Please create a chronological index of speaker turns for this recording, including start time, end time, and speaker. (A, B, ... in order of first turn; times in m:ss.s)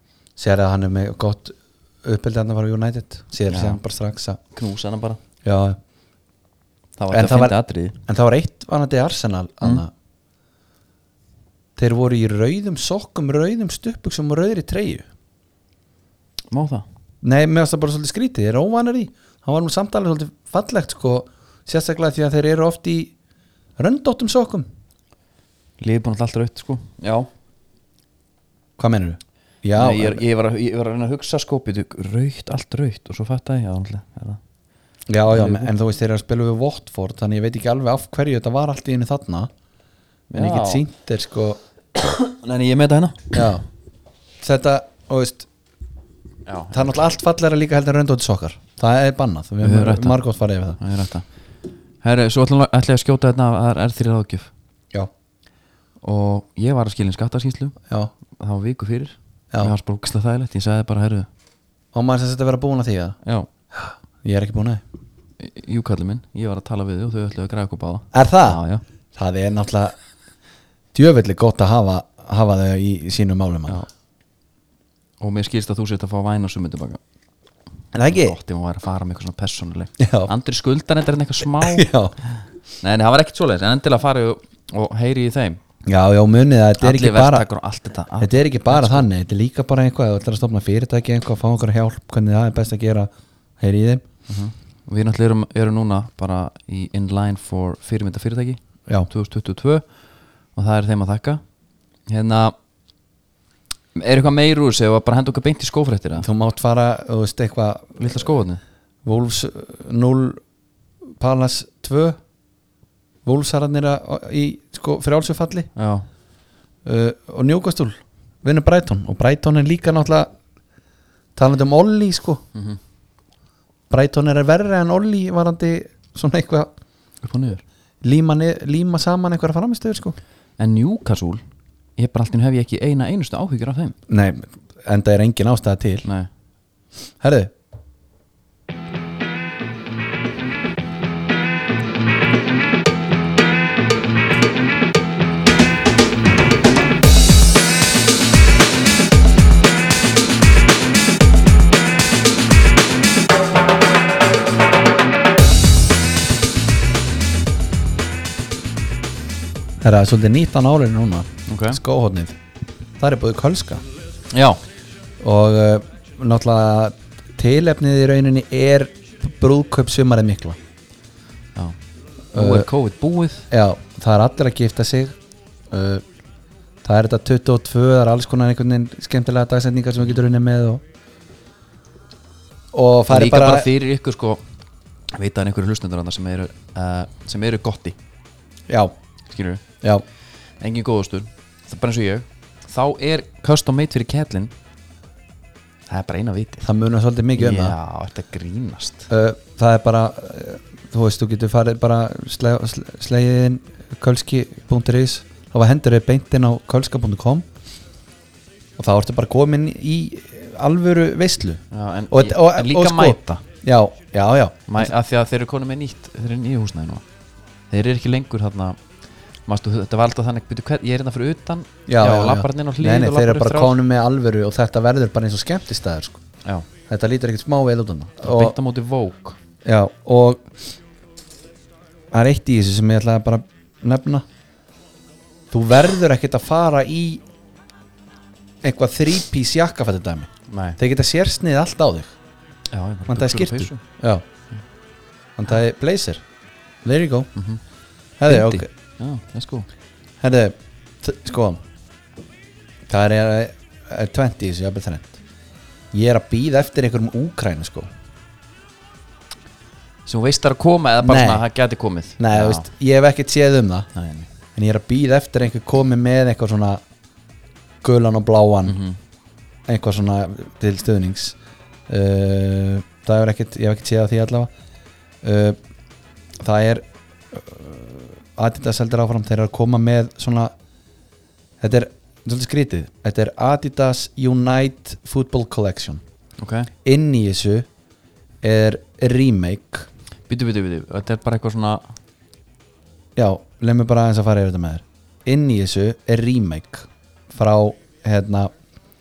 0:00.4-0:04.4 A
0:03.5-0:03.8 B
0:04.5-0:05.2 B
0:05.4-0:05.8 A
0:07.0-0:08.0 B
0:07.1-0:07.5 A
0:08.0-0:09.9 A
0:11.8-0:15.1 A
0:16.5-0:16.8 B
0:17.2-0:23.1 A
0:23.8-0:24.7 A
0:25.8-0:27.3 B
0:28.8-0:30.2 A
0:29.8-0:34.4 B
0:35.1-0:39.5 A
0:35.3-0:35.7 B
0:40.3-0:40.8 B
0:40.3-0:41.6 A
0:42.0-0:43.5 B
0:43.3-0:43.6 A
0:44.4-0:45.5 A
0:46.4-0:46.9 B
0:46.7-0:50.8 A
0:49.6-0:50.2 B
0:50.8-0:51.2 B
0:52.0-0:54.5 B
0:56.0-0:57.8 B
0:58.3-1:01.3 B
1:01.9-1:03.2 A
1:03.7-1:04.8 A
1:05.4-1:08.8 B
1:08.1-1:08.6 A
1:09.1-1:10.0 A
1:10.9-1:13.8 A
1:15.2-1:17.0 B
1:17.9-1:18.4 A
1:18.1-1:21.9 B
1:20.0-1:20.3 A
1:21.6-1:22.1 A
1:22.8-1:25.6 B
1:25.8-1:27.4 A
1:26.8-1:29.0 B
1:28.2-1:34.0 A
1:34.3-1:39.8 B
1:40.6-1:41.4 B
1:42.1-1:42.5 B
1:43.9-1:46.3 B
1:46.2-1:48.2 A
1:48.0-1:48.6 B
1:49.0-1:50.4 A
1:51.2-1:52.2 A
1:53.2-1:55.7 A
1:55.8-1:56.0 B
1:56.8-2:00.3 A
2:01.4-2:02.4 A
2:03.9-2:06.7 A
2:07.2-2:07.6 B
2:08.0-2:10.2 A
2:10.6-2:11.4 B
2:12.0-2:14.0 B
2:14.1-2:16.1 A
2:17.2-2:17.5 A
2:39.8-2:42.4 A
2:41.5-2:41.8 B
2:43.0-2:43.8 A
2:44.3-2:44.6 B
2:45.2-2:50.6 A
2:52.3-2:53.5 B
2:52.3-2:52.7 A
2:53.5-2:55.2 A
2:55.7-2:56.0 A
2:56.8-3:00.8 A
3:02.7-3:03.7 A
3:03.1-3:04.4 B
3:05.1-3:08.0 B
3:08.7-3:08.9 A
3:09.3-3:09.6 B
3:10.6-3:14.5 B
3:15.9-3:16.6 B
3:16.6-3:17.8 A
3:17.4-3:19.1 B
3:19.1-3:27.5 A
3:28.8-3:34.9 A
3:31.7-3:33.4 B
3:34.7-3:37.0 B
3:37.7-3:38.8 B
3:39.4-3:43.8 B
3:41.9-3:46.2 A
3:46.9-3:48.5 A
3:48.2-3:49.4 B
3:49.6-3:50.5 A
3:52.1-3:54.2 A
3:55.5-3:57.2 A
3:58.6-4:02.1 A
4:00.5-4:00.8 B
4:02.7-4:03.8 B
4:03.1-4:04.2 A
4:05.4-4:06.2 A
4:06.8-4:07.3 A
4:08.2-4:08.7 A
4:08.2-4:09.7 B
4:10.2-4:11.6 A
4:12.9-4:15.2 A
4:15.9-4:17.9 A
4:20.0-4:22.7 B
4:21.0-4:21.4 A
4:22.2-4:23.9 A
4:23.9-4:24.3 B
4:24.5-4:26.8 A
4:27.8-4:28.8 A
4:28.6-4:29.0 B
4:29.7-4:31.4 A
4:31.9-4:34.5 A
4:35.2-4:35.6 A
4:36.4-4:40.5 A
4:41.6-4:46.0 A
4:46.4-4:46.7 B
4:46.8-4:47.7 A
4:48.4-4:49.9 A
4:50.3-4:51.9 B
4:53.2-4:58.5 A